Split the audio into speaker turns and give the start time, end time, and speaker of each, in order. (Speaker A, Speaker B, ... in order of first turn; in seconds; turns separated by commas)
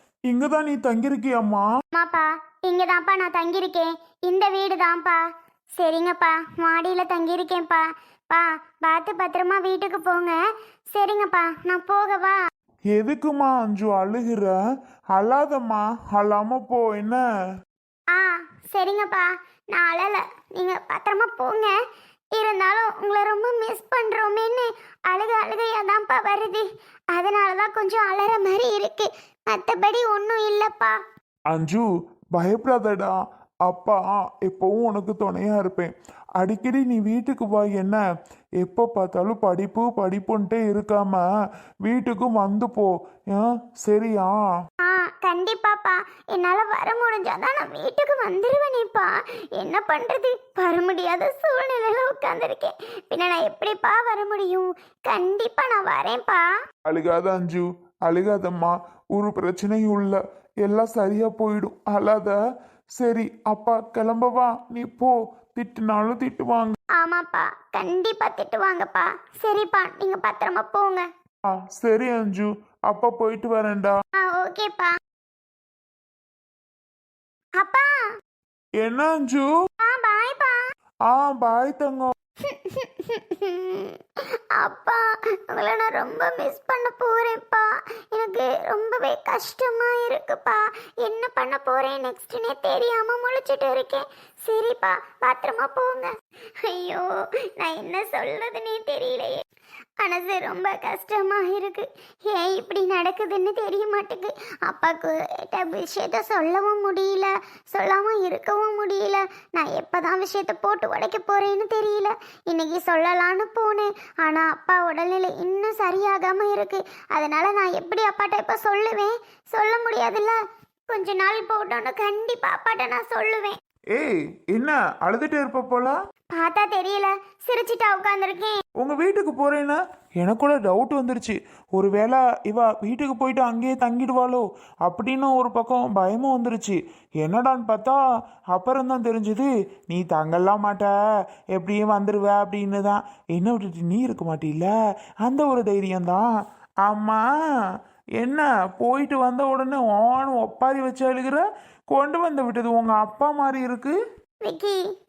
Speaker A: 0.3-1.7, Speaker B: 1.9-10.4, Speaker B: 10.9-12.4, Speaker A: 12.9-14.6, Speaker A: 15.1-17.2, Speaker B: 18.1-21.8, Speaker B: 22.3-31.0, Speaker A: 31.5-38.0, Speaker A: 38.6-41.2, Speaker A: 41.8-44.4, Speaker B: 44.8-56.5, Speaker A: 56.9-62.4, Speaker A: 63.0-66.8, Speaker B: 66.9-71.1, Speaker A: 71.7-74.0, Speaker B: 74.2-74.9, Speaker B: 77.6-78.0, Speaker A: 78.8-79.5, Speaker B: 79.8-80.6, Speaker A: 81.1-82.1, Speaker B: 82.4-99.4, Speaker B: 100.0-120.4, Speaker B: 120.9-123.6, Speaker A: 123.9-126.0, Speaker B: 126.3-128.6, Speaker A: 128.8-138.0, Speaker A: 138.5-140.9, Speaker A: 141.5-146.2, Speaker A: 146.8-147.2, Speaker A: 148.2-153.9, Speaker B: 154.4-154.8